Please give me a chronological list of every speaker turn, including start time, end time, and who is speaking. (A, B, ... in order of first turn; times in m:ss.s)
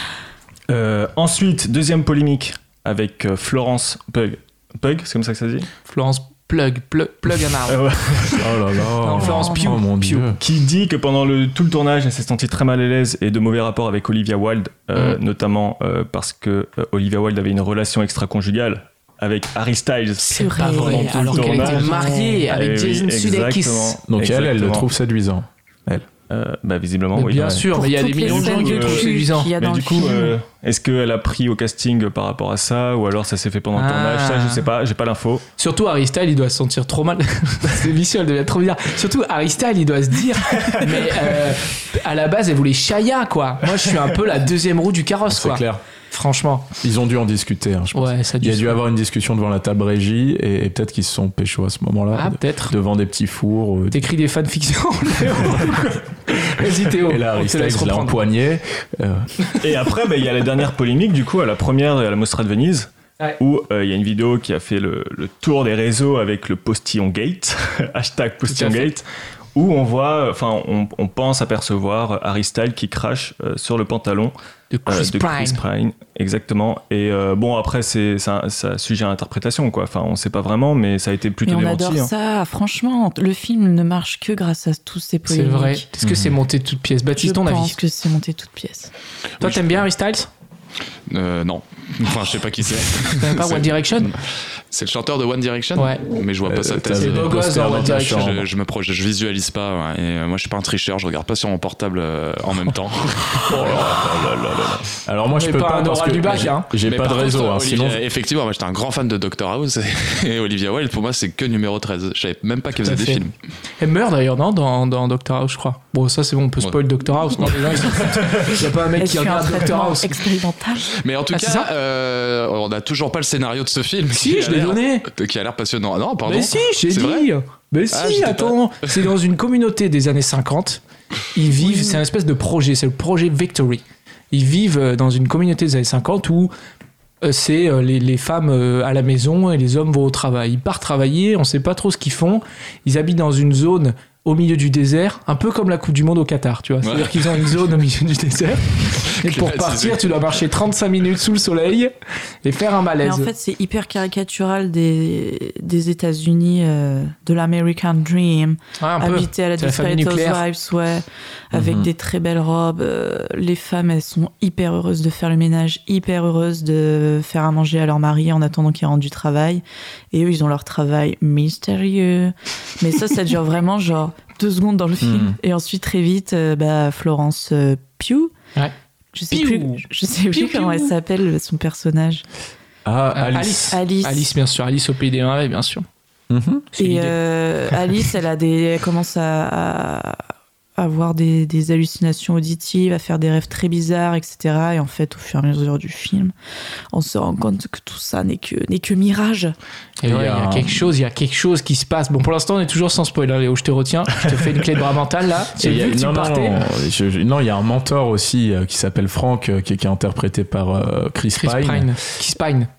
0:00.7-0:05.7 A
0:05.9-0:07.8 B
0:07.7-0:08.6 A
0:08.4-0:10.4 C
0:09.0-0:10.3 B
0:09.2-0:09.8 D
0:10.4-0:24.9 A
0:20.2-0:24.0 B
0:20.3-0:22.4 D
0:24.1-0:26.1 C
0:26.3-0:35.4 A
0:27.2-0:29.5 B
0:27.7-0:30.4 D
0:33.8-0:34.6 B
0:35.6-0:46.7 B
0:40.6-0:41.0 A
0:45.3-0:45.8 C
0:46.8-0:54.1 C
0:47.9-0:48.8 B
0:52.1-0:52.7 B
0:53.9-0:58.2 B
0:56.9-0:59.3 C
0:59.6-1:14.4 A
1:08.5-1:09.0 B
1:14.7-1:15.6 B
1:14.9-1:22.1 A
1:21.4-1:25.9 D
1:25.3-1:27.8 B
1:26.0-1:26.4 C
1:27.2-1:28.9 D
1:29.4-1:29.8 E
1:29.4-1:30.3 B
1:31.1-1:37.4 E
1:33.2-1:34.1 B
1:35.8-1:36.0 B
1:36.4-1:38.5 C
1:36.9-1:38.4 B
1:38.0-1:44.9 E
1:43.5-1:43.8 C
1:45.0-1:48.0 C
1:45.3-1:46.7 B
1:46.8-1:53.3 E
1:52.8-1:53.2 C
1:53.8-2:00.2 B
1:57.4-1:58.2 E
1:59.0-2:01.0 D
2:00.9-2:07.3 E
2:01.3-2:01.7 B
2:04.1-2:05.1 B
2:06.2-2:10.8 B
2:07.9-2:09.1 E
2:11.3-2:16.5 B
2:17.2-2:31.9 B
2:26.8-2:27.6 E
2:29.0-2:30.4 E
2:32.4-2:33.3 B
2:33.0-2:58.3 D
2:38.8-2:40.4 B
2:41.5-2:41.9 C
2:55.0-2:55.4 C
2:59.1-3:02.2 D
2:59.3-3:00.9 B
3:02.8-3:03.8 C
3:03.1-3:05.9 B
3:03.7-3:04.3 D
3:06.3-3:06.7 C
3:06.8-3:07.2 B
3:06.8-3:10.2 D
3:10.8-3:16.3 D
3:16.9-3:19.6 D
3:20.0-3:26.6 B
3:20.0-3:21.0 C
3:25.6-3:32.0 C
3:31.4-3:32.7 B